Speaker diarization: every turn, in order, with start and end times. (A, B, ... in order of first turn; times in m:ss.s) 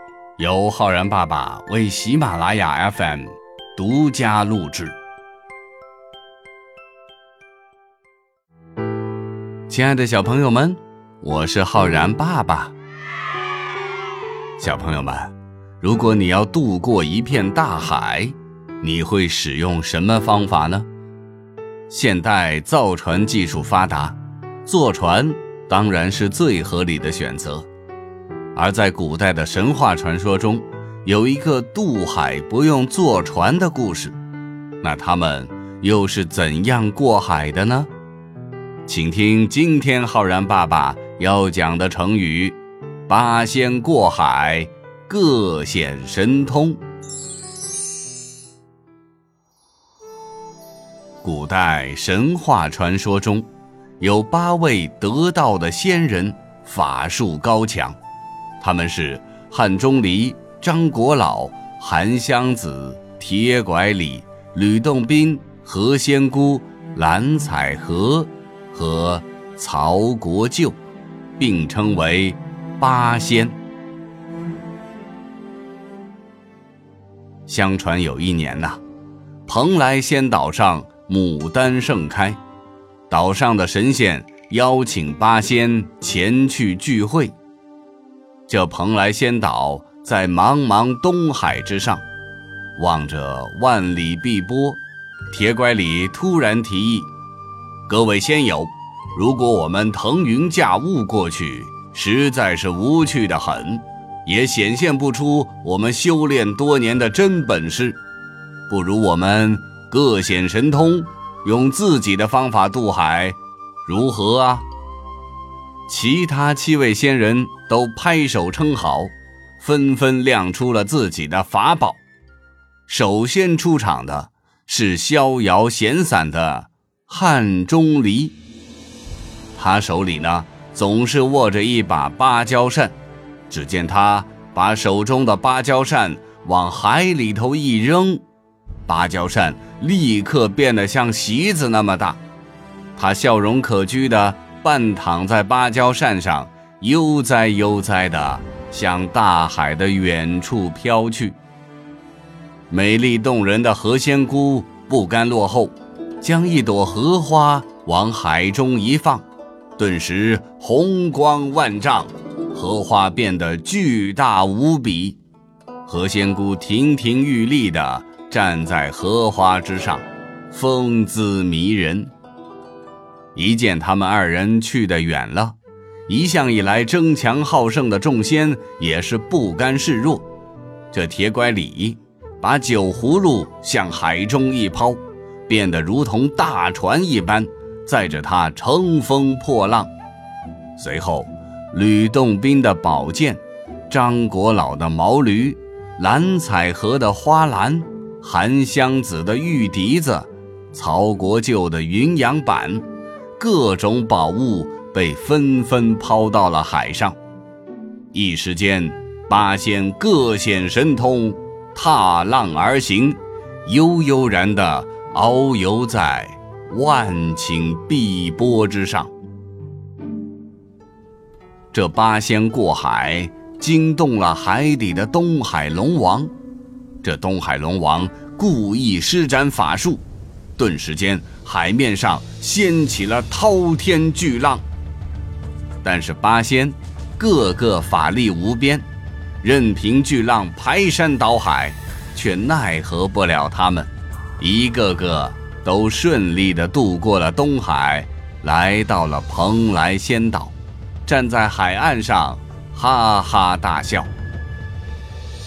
0:00.4-0:05.0 A
0:09.7-0:12.8 A
0:14.6-0:20.9 A
0:21.9-0:27.7 A
0:28.6-0:34.2 A
0:34.8-0:37.9 A
0:38.9-0:42.6 A
0:43.1-0:46.8 A
0:51.2-0:53.5 A
0:54.0-0:58.0 A
0:58.6-1:10.8 A
1:11.4-1:13.6 A
1:17.5-1:18.8 A
1:19.5-1:22.4 A
1:23.1-1:27.3 A
1:28.5-1:32.0 A
1:32.8-1:37.1 A
1:37.9-1:48.0 A
1:48.7-1:54.7 A
1:55.9-2:02.0 A
2:02.9-2:08.4 A
2:09.6-2:13.0 A
2:13.5-2:18.2 A
2:18.9-2:22.2 A
2:23.0-2:31.4 A
2:32.7-2:39.2 A
2:39.8-2:45.2 A
2:45.9-2:52.1 A
2:53.4-2:55.6 A
2:56.1-3:00.2 A
3:00.9-3:09.9 A
3:10.8-3:22.8 A
3:23.4-3:27.2 A
3:28.1-3:39.1 A
3:41.7-3:46.3 A
3:47.0-3:50.0 A
3:50.6-3:54.6 A
3:55.8-3:58.8 A
3:59.4-4:14.1 A